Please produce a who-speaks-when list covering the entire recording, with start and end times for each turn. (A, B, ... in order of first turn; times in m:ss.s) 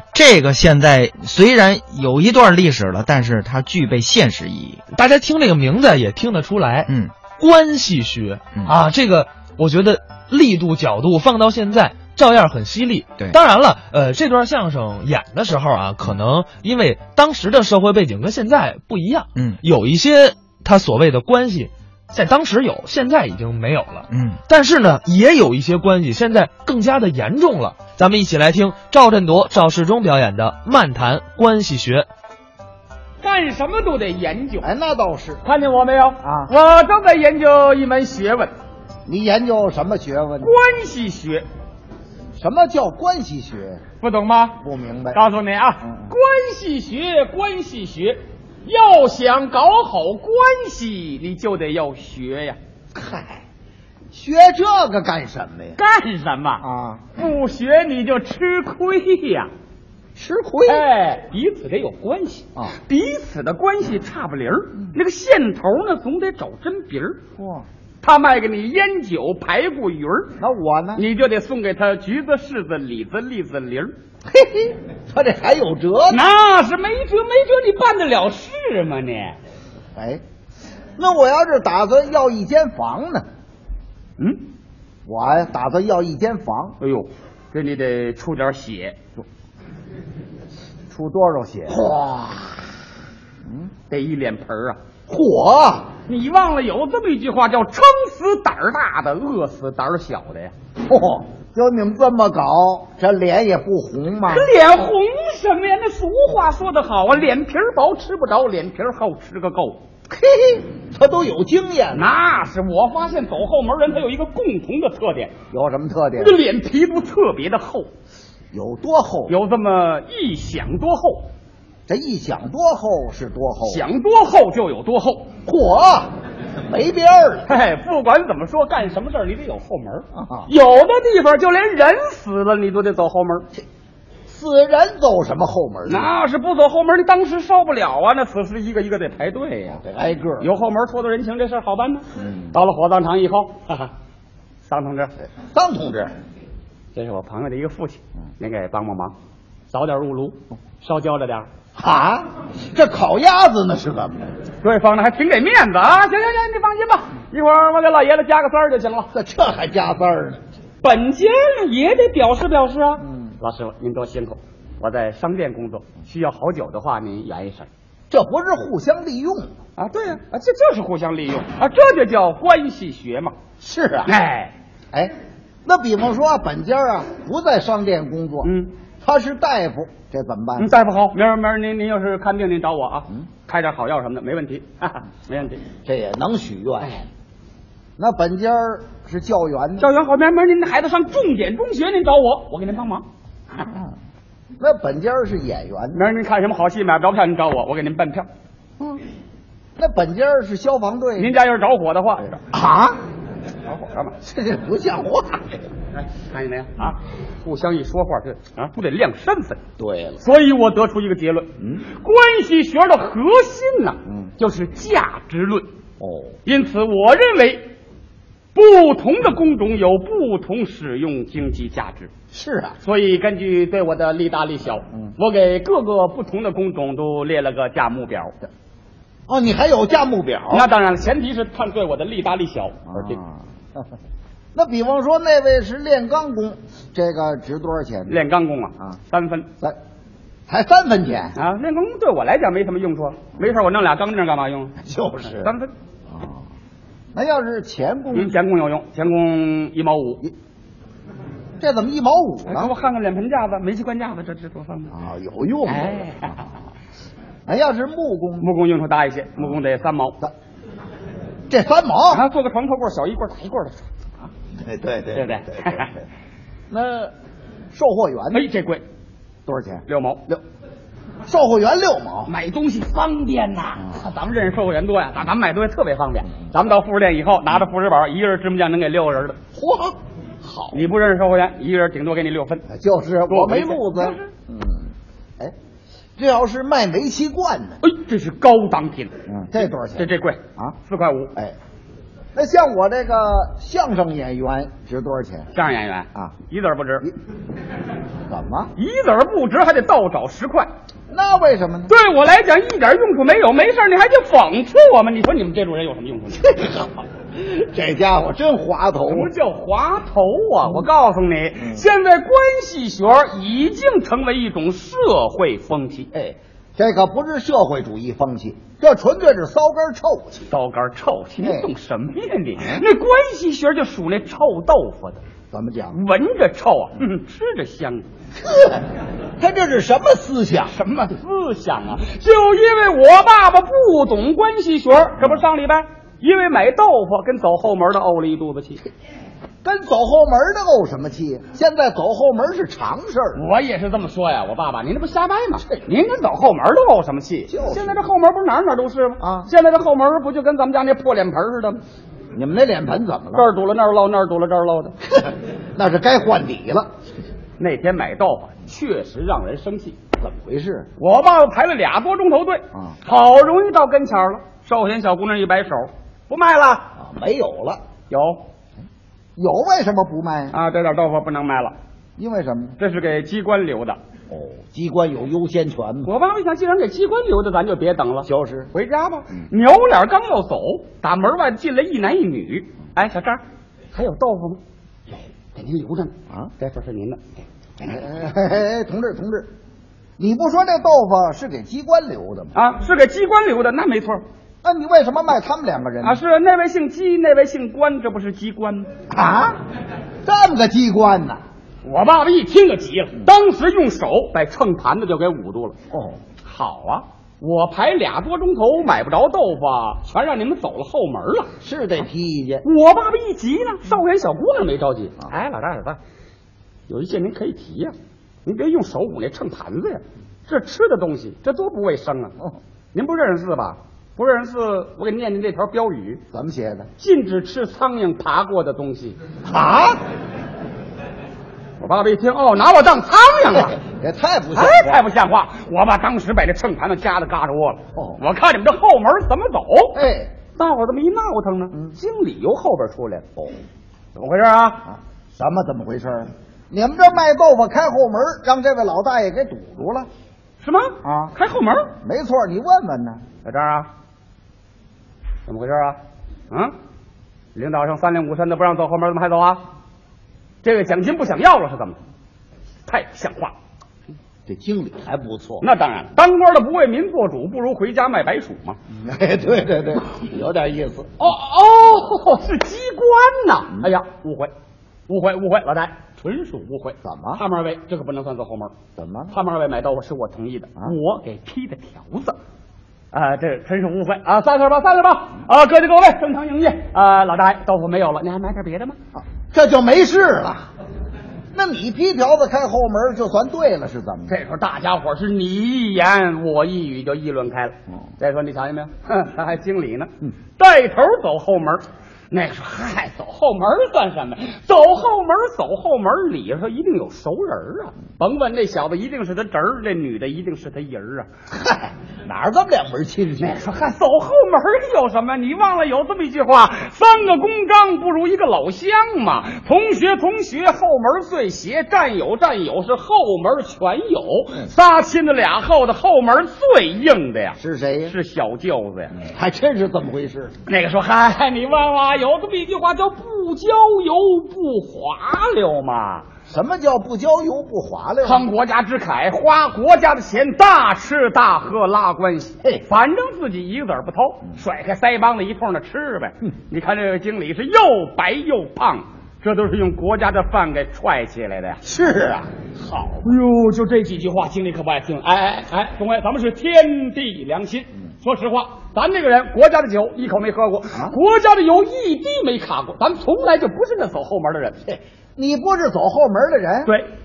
0:00.1-0:04.8 A
0:04.9-0:32.1 B
0:06.9-0:07.1 A
0:19.4-0:19.6 A
0:24.1-0:24.4 A
0:33.2-0:34.7 C
0:34.6-0:35.4 D
0:35.4-0:38.5 C
0:36.2-0:36.5 D
0:39.1-0:40.5 D
0:40.4-0:41.4 C
0:42.4-0:43.8 D
0:44.0-0:44.6 C
0:44.6-0:45.2 D
0:45.1-0:52.6 C
0:45.8-0:46.1 D
0:52.9-0:53.4 D
0:54.1-0:55.8 D
0:55.8-0:56.6 C
0:56.6-0:57.0 D
0:57.1-0:59.5 C
1:00.2-1:00.8 D
1:00.6-1:07.2 C
1:07.4-1:07.6 D
1:08.0-1:10.4 C
1:10.4-1:11.0 D
1:11.0-1:13.9 C
1:14.3-1:16.2 D
1:16.1-1:19.4 C
1:20.0-1:20.2 D
1:21.0-1:23.2 D
1:24.2-1:24.4 C
1:25.0-1:26.8 D
1:26.8-1:29.0 C
1:30.9-1:32.0 D
1:31.7-1:32.6 C
1:33.9-1:34.8 C
1:35.1-1:35.9 D
1:36.0-1:40.5 C
1:40.8-1:44.5 D
1:44.2-1:49.8 C
1:50.1-1:52.0 D
1:51.9-1:55.3 C
1:55.5-1:56.4 D
1:56.2-1:57.9 C
1:58.5-1:59.3 D
1:59.3-2:01.3 C
2:01.9-2:03.8 D
2:03.6-2:05.3 C
2:05.4-2:07.5 D
2:07.5-2:13.5 C
2:10.1-2:10.5 D
2:14.3-2:16.1 D
2:15.9-2:19.8 C
2:19.8-2:20.5 D
2:20.4-2:23.9 C
2:22.2-2:22.6 D
2:24.6-2:25.1 C
2:25.4-2:26.1 D
2:26.9-2:29.1 C
2:29.7-2:31.5 C
2:31.8-2:34.3 D
2:34.6-2:39.1 C
2:39.1-2:40.4 D
2:40.8-2:47.7 C
2:43.0-2:43.4 D
2:48.1-2:49.5 D
2:49.8-2:53.3 C
2:53.6-2:54.1 D
2:54.0-2:54.5 C
2:55.6-2:58.5 D
2:58.4-2:58.7 C
2:59.0-3:00.7 D
3:00.6-3:05.6 C
3:05.8-3:06.9 D
3:08.0-3:09.9 D
3:09.8-3:13.0 C
3:14.6-3:16.0 D
3:15.9-3:18.3 C
3:19.8-3:21.4 D
3:21.2-3:22.4 C
3:22.3-3:23.0 D
3:23.6-3:24.1 C
3:24.2-3:25.7 D
3:26.0-3:29.6 C
3:29.8-3:30.2 D
3:30.2-3:35.7 C
3:31.6-3:31.8 D
3:36.0-3:36.4 D
3:36.4-3:37.7 C
3:38.5-3:42.1 C
3:42.3-3:42.8 D
3:42.8-3:48.4 C
3:49.3-3:50.7 D
3:50.5-3:53.2 C
3:52.9-3:53.9 D
3:54.5-3:58.2 D
3:58.1-3:59.5 C
4:00.5-4:01.4 D
4:01.4-4:04.8 C
4:04.8-4:05.5 D
4:05.3-4:05.7 C
4:06.1-4:06.4 D
4:07.1-4:08.4 D
4:08.1-4:10.2 C
4:11.6-4:12.7 D
4:12.4-4:14.9 C
4:14.9-4:16.4 D
4:15.7-4:16.4 C
4:17.5-4:18.5 D
4:18.4-4:20.2 C
4:21.5-4:22.2 D
4:22.1-4:24.3 C
4:24.6-4:25.9 D
4:25.1-4:25.9 C
4:26.7-4:27.1 D
4:27.7-4:28.5 D
4:28.3-4:28.8 C
4:29.4-4:30.4 D
4:29.9-4:30.2 C
4:31.3-4:32.3 D
4:32.3-4:39.4 C
4:39.5-4:40.9 D
4:40.7-4:42.6 C
4:42.7-4:45.5 D
4:43.3-4:44.3 C
4:46.2-4:47.8 D
4:47.8-4:49.1 C
4:49.3-4:50.8 D
4:49.7-4:51.3 C
4:52.3-4:55.5 D
4:55.5-4:57.1 C
4:58.3-4:58.7 D
4:58.8-5:00.7 C
5:01.1-5:01.9 D
5:01.9-5:06.4 C
5:06.4-5:09.3 D
5:09.1-5:16.1 C
5:16.1-5:20.5 D
5:20.5-5:25.2 C
5:21.4-5:21.7 D
5:25.5-5:26.0 D
5:25.9-5:28.0 C
5:28.4-5:28.8 D
5:29.4-5:30.7 D
5:30.7-5:38.8 C
5:35.2-5:35.4 D
5:39.6-5:43.4 D
5:43.4-5:51.8 C
5:47.5-5:48.0 D
5:49.2-5:49.5 D
5:52.3-5:53.4 D
5:53.3-5:54.9 C
5:55.0-5:56.9 D
5:57.6-6:00.0 C
6:00.2-6:00.9 D
6:01.0-6:06.9 C
6:07.0-6:07.8 D
6:08.1-6:08.4 C
6:09.4-6:10.6 D
6:10.5-6:11.7 C
6:12.2-6:12.8 D
6:12.8-6:14.0 C
6:14.3-6:16.1 D
6:16.0-6:23.4 C
6:18.2-6:18.7 D
6:23.9-6:24.6 C
6:25.1-6:27.2 C
6:27.8-6:29.5 D
6:30.2-6:32.5 D
6:32.5-6:34.2 C
6:34.6-6:36.2 D
6:36.0-6:38.9 C
6:39.1-6:39.6 D
6:40.2-6:41.4 D
6:41.8-6:45.8 C
6:45.9-6:46.2 D
6:46.4-6:51.5 C
6:51.6-6:52.6 D
6:52.6-6:56.0 C
6:56.9-6:57.9 C
6:58.4-7:02.3 C
7:02.9-7:06.2 C
7:06.3-7:06.9 D
7:07.0-7:09.2 C
7:09.4-7:10.0 D
7:11.8-7:13.8 C
7:13.5-7:15.0 D
7:14.5-7:20.0 C
7:17.9-7:18.2 D
7:19.9-7:20.3 D
7:20.5-7:23.5 C
7:24.2-7:24.8 C
7:24.9-7:30.1 D
7:30.6-7:31.9 C
7:31.0-7:31.3 D
7:32.0-7:33.2 D
7:33.4-7:33.9 C
7:35.5-7:36.0 C
7:37.5-7:39.6 C
7:40.6-7:42.0 C
7:42.9-7:43.5 C
7:44.5-7:45.6 D
7:45.6-7:48.8 C
7:48.9-7:51.1 D
7:51.2-7:54.5 C
7:55.1-7:58.7 C
7:57.0-7:57.4 D
7:59.0-7:59.3 D
7:59.3-8:02.4 C
8:03.1-8:09.0 C
8:09.1-8:10.7 D
8:11.5-8:14.3 D
8:14.3-8:31.3 C
8:31.5-8:33.6 D
8:33.4-8:49.1 C
8:47.6-8:48.1 D
8:49.1-8:50.5 D
8:50.6-8:56.2 C
8:56.5-8:58.5 D
8:58.2-9:11.8 C
9:11.8-9:13.3 D
9:13.2-9:24.8 C
9:24.9-9:26.9 D